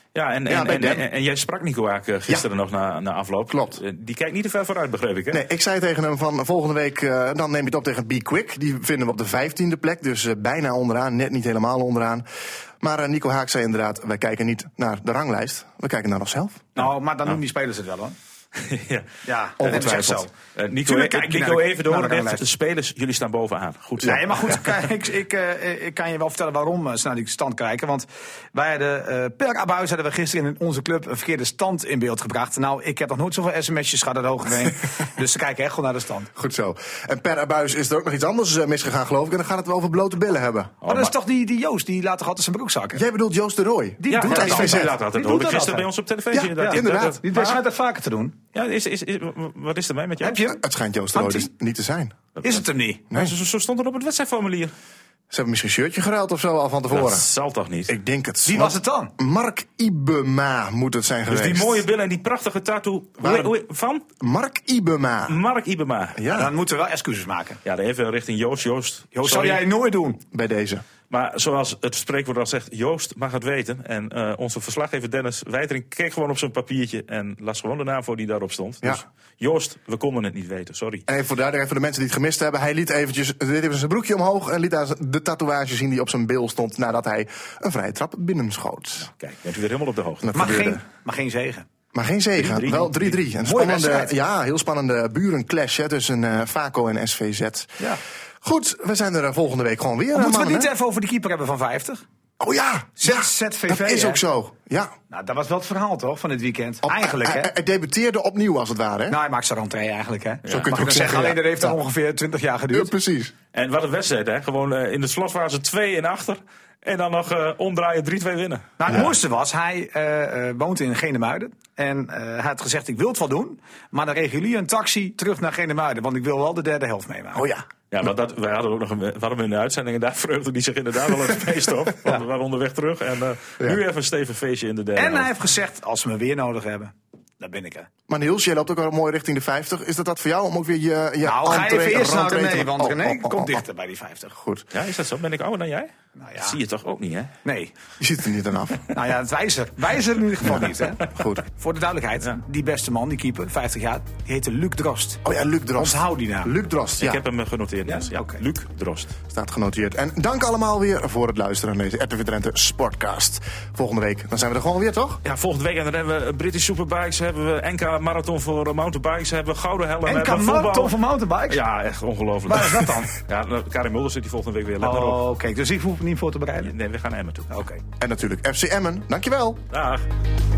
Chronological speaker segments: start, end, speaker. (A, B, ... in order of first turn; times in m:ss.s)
0:00.1-0:05.4 A
0:00.4-0:01.0 B
0:03.5-0:03.8 B
0:05.3-0:12.2 B
0:12.8-0:16.6 B
0:16.7-0:18.2 C
0:18.6-0:19.1 A
0:19.2-0:20.3 C
0:19.6-0:20.2 B
0:19.6-0:24.7 A
0:20.8-0:22.4 C
0:24.0-0:36.3 C
0:36.4-0:40.7 B
0:40.8-0:41.1 A
0:40.8-0:43.0 C
0:42.9-0:44.9 B
0:44.0-0:48.4 C
0:44.1-0:47.6 A
0:46.6-0:47.2 B
0:48.5-0:50.5 A
0:50.2-0:50.6 C
0:50.4-0:52.1 B
0:51.1-0:51.5 C
0:52.4-0:53.0 C
0:52.4-0:54.7 A
0:55.3-0:57.3 B
0:56.9-0:57.9 A
0:57.9-1:01.8 B
0:58.4-0:59.1 C
1:01.3-1:04.0 A
1:03.2-1:03.5 B
1:04.2-1:05.4 B
1:05.3-1:06.3 A
1:06.2-1:06.5 B
1:06.3-1:07.6 C
1:07.6-1:09.6 A
1:09.1-1:10.2 C
1:10.3-1:10.8 B
1:11.1-1:21.0 A
1:21.1-1:29.1 B
1:29.0-1:30.6 A
1:30.2-1:30.8 B
1:30.3-1:31.6 C
1:31.9-1:37.8 B
1:32.4-1:33.2 A
1:33.4-1:34.1 C
1:38.4-1:40.7 B
1:40.1-1:42.0 C
1:42.4-1:44.9 B
1:43.0-1:44.2 C
1:45.1-1:47.5 C
1:46.8-1:49.2 B
1:49.1-1:52.9 C
1:50.4-1:50.9 A
1:50.5-1:51.8 B
1:52.7-1:53.3 B
1:53.5-1:59.0 A
1:58.8-2:07.5 C
2:07.3-2:07.6 B
2:07.9-2:15.3 A
2:14.9-2:17.9 C
2:18.1-2:23.6 B
2:21.2-2:24.3 C
2:24.3-2:24.6 B
2:24.7-2:27.3 A
2:26.2-2:26.6 C
2:27.4-2:27.7 C
2:28.0-2:28.9 B
2:28.9-2:35.2 C
2:30.4-2:31.4 B
2:35.2-2:37.2 B
2:35.8-2:36.5 C
2:37.0-2:39.1 A
2:37.9-2:38.4 C
2:39.3-2:45.2 B
2:45.2-2:51.0 A
2:50.0-2:51.6 C
2:51.5-2:55.2 A
2:52.4-2:53.1 C
2:54.8-2:56.7 C
2:56.6-2:57.5 A
2:57.5-2:57.8 C
2:58.0-2:59.6 B
2:59.7-3:00.0 A